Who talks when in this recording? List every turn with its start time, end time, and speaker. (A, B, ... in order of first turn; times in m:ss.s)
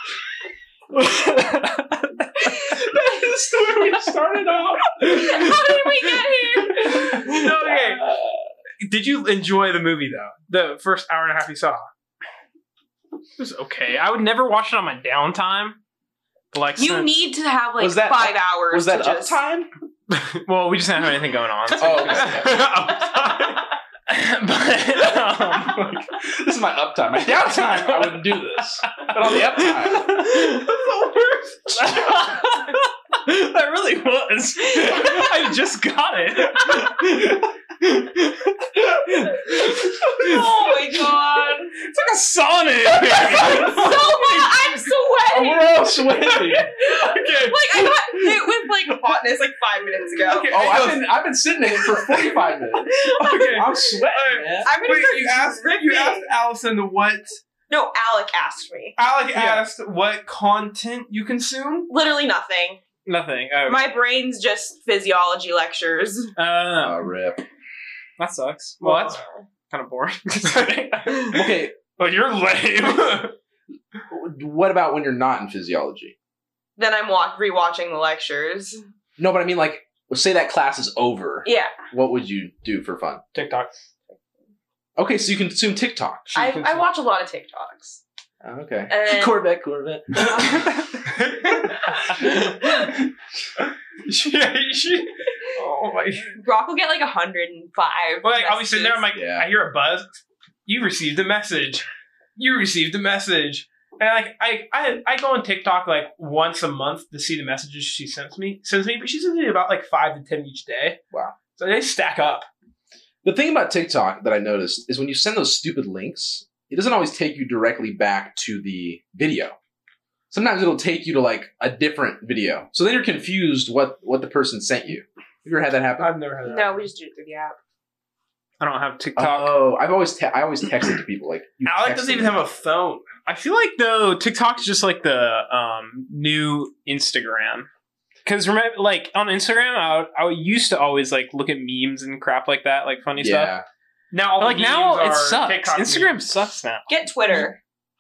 0:01.0-0:02.8 A
0:02.4-0:03.3 B
0:03.0-0:05.5 C
0:05.0-0:07.3 B
0:05.2-0:05.7 A
0:07.1-0:08.0 D
0:07.2-0:08.4 C
0:08.8-0:11.8 D
0:13.4-0:15.8 A
0:16.5-0:17.1 A
0:16.8-0:19.4 B
0:17.8-0:19.7 C
0:20.4-0:22.4 A
0:21.8-0:22.7 C
0:22.0-0:23.7 D
0:24.1-0:26.0 A
0:26.1-0:30.3 C
0:27.2-0:30.8 A
0:30.6-0:31.9 D
0:31.7-0:40.5 A
0:34.8-0:35.4 B
0:39.5-0:41.8 B
0:41.8-0:44.4 A
0:42.9-0:50.6 B
0:45.3-0:46.7 C
0:46.3-0:48.6 D
0:50.2-0:51.1 D
0:50.5-0:54.7 C
0:52.9-0:53.6 B
0:53.2-0:57.4 D
0:54.6-0:56.3 B
0:57.7-0:59.0 B
0:59.0-1:01.9 D
0:59.3-0:59.7 A
1:01.9-1:02.8 B
1:03.0-1:03.9 A
1:03.7-1:06.3 B
1:06.4-1:07.0 A
1:06.8-1:07.4 C
1:08.2-1:11.4 A
1:08.8-1:09.2 D
1:11.3-1:11.7 C
1:12.0-1:13.3 D
1:14.1-1:16.1 C
1:16.8-1:18.8 B
1:19.2-1:23.2 C
1:21.4-1:21.8 B
1:23.3-1:23.8 D
1:25.0-1:26.3 C
1:26.3-1:26.9 D
1:26.3-1:28.0 B
1:28.4-1:30.7 C
1:28.9-1:29.4 B
1:31.0-1:32.9 D
1:34.0-1:36.4 D
1:36.4-1:39.0 B
1:38.2-1:41.8 D
1:39.1-1:39.5 C
1:42.4-1:51.0 D
1:51.6-1:52.5 D
1:53.2-1:59.6 C
2:00.3-2:06.1 C
2:06.0-2:06.9 D
2:06.4-2:07.6 B
2:08.6-2:09.6 A
2:09.2-2:12.4 C
2:11.6-2:13.0 D
2:13.3-2:17.7 A
2:18.2-2:23.5 A
2:23.2-2:23.6 C
2:24.1-2:26.2 D
2:24.4-2:27.4 A
2:26.9-2:27.6 B